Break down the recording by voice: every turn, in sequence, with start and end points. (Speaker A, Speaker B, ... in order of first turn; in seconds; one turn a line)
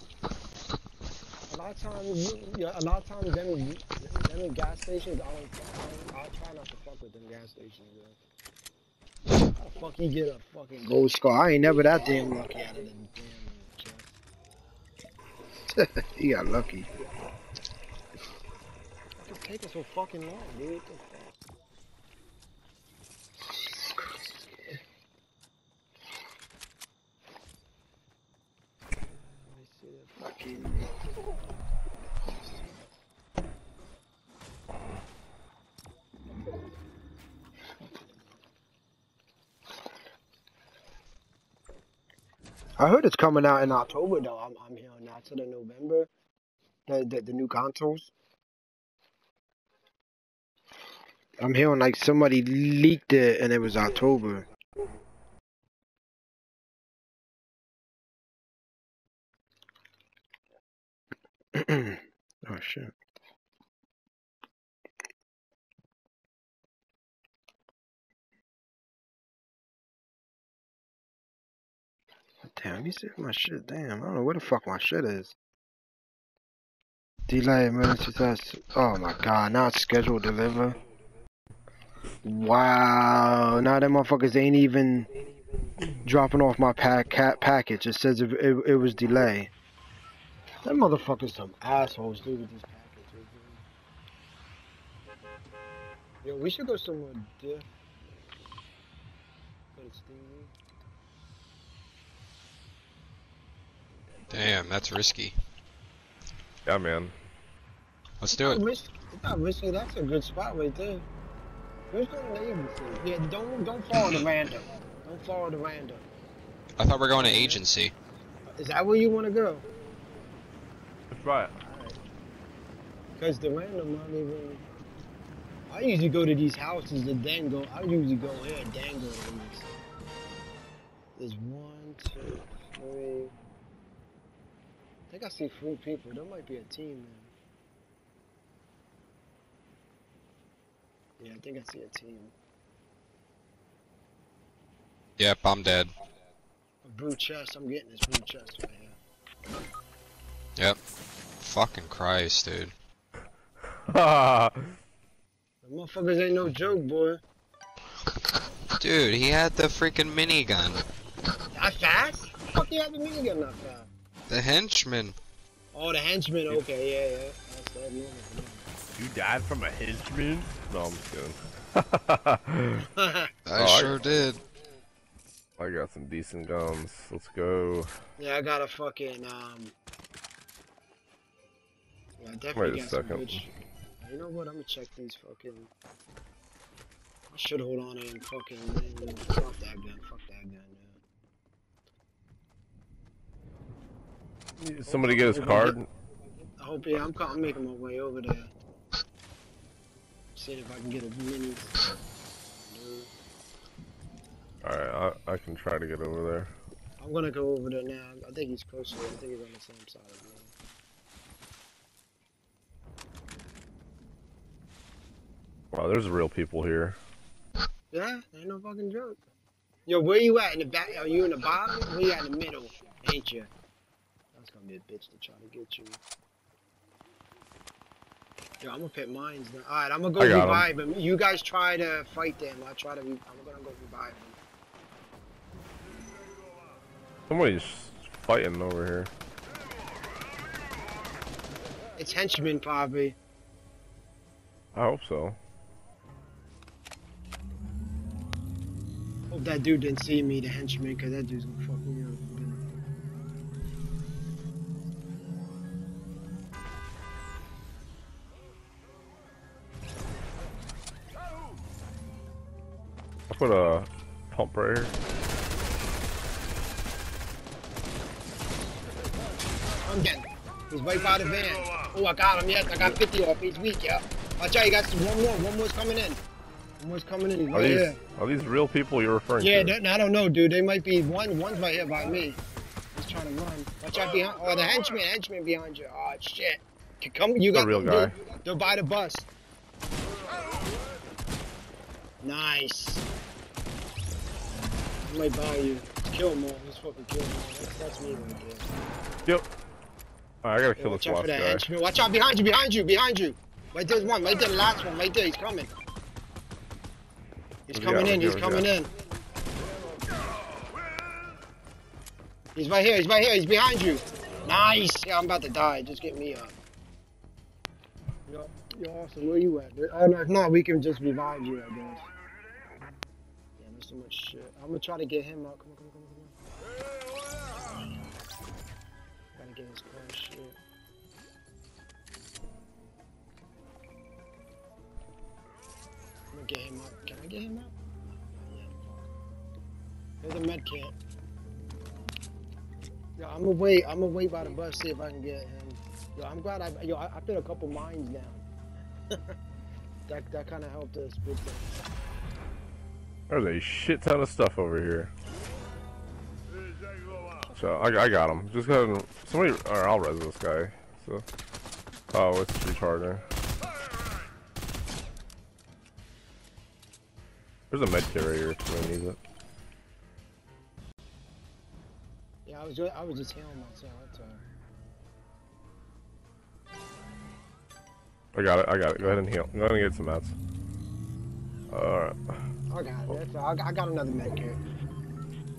Speaker A: 1.5-8.2
Speaker A: 9.5-14.1
Speaker A: 15.7-16.9
Speaker A: 19.2-21.4
Speaker A: 24.0-24.8
Speaker A: 29.0-30.9
Speaker A: 42.8-46.1
Speaker A: 46.9-48.1
Speaker A: 51.4-54.5
Speaker A: 61.5-62.9
Speaker A: 72.4-75.3
Speaker A: 77.3-80.8
Speaker A: 82.2-85.1
Speaker A: 86.0-89.5
Speaker A: 90.6-93.6
Speaker A: 96.2-97.7
Speaker A: 99.7-100.5
Speaker B: 104.3-105.3
Speaker C: 106.7-107.1
Speaker B: 108.2-108.6
Speaker A: 108.3-111.0
Speaker A: 111.9-116.1
Speaker B: 116.8-117.9
Speaker A: 117.1-117.6
Speaker A: 118.5-119.7
Speaker C: 121.1-121.5
Speaker A: 121.6-122.0
Speaker A: 123.2-124.6
Speaker A: 125.7-129.7
Speaker A: 131.2-133.3
Speaker A: 135.1-137.3
Speaker A: 141.2-142.3
Speaker B: 145.2-145.9
Speaker A: 146.8-149.0
Speaker B: 151.4-152.7
Speaker C: 153.8-154.8
Speaker A: 155.6-157.2
Speaker B: 158.8-160.8
Speaker A: 161.5-163.9
Speaker B: 164.3-165.2
Speaker A: 165.7-168.7
Speaker C: 169.0-172.9
Speaker A: 172.9-173.3
Speaker B: 173.4-174.4
Speaker C: 173.5-174.2
Speaker C: 175.6-177.9
Speaker A: 178.2-179.7
Speaker A: 182.2-183.5
Speaker C: 182.6-183.4
Speaker A: 184.0-185.7
Speaker A: 187.3-191.0
Speaker C: 194.6-195.9
Speaker A: 194.9-195.8
Speaker A: 196.6-198.5
Speaker A: 200.3-201.8
Speaker A: 202.4-203.1
Speaker C: 204.6-206.5
Speaker A: 207.0-210.5
Speaker C: 215.7-217.0
Speaker A: 217.9-219.2
Speaker A: 219.9-223.5
Speaker A: 224.3-226.0
Speaker A: 228.6-234.4
Speaker C: 230.2-230.7
Speaker C: 237.3-239.1
Speaker A: 241.9-243.2
Speaker C: 244.7-245.4
Speaker A: 249.3-252.8
Speaker C: 263.3-264.9
Speaker A: 269.8-276.2
Speaker A: 276.8-278.0
Speaker C: 277.5-279.8
Speaker A: 279.4-282.4
Speaker A: 282.9-289.3
Speaker C: 287.5-288.1
Speaker A: 292.2-293.1
Speaker A: 295.1-298.8
Speaker C: 300.4-301.7
Speaker A: 300.8-305.7
Speaker A: 307.7-308.9
Speaker C: 307.7-308.7
Speaker A: 312.6-316.6
Speaker A: 318.3-322.1
Speaker A: 323.6-326.4
Speaker A: 329.4-330.6
Speaker A: 336.3-337.7
Speaker A: 338.4-339.1
Speaker A: 340.2-340.9
Speaker A: 343.2-348.4
Speaker A: 349.1-349.4
Speaker A: 350.1-351.8
Speaker C: 353.3-355.1
Speaker C: 357.6-361.2
Speaker C: 362.1-363.2
Speaker C: 367.7-369.2
Speaker A: 372.4-374.4
Speaker C: 378.3-380.4
Speaker C: 381.7-382.2
Speaker A: 382.7-384.6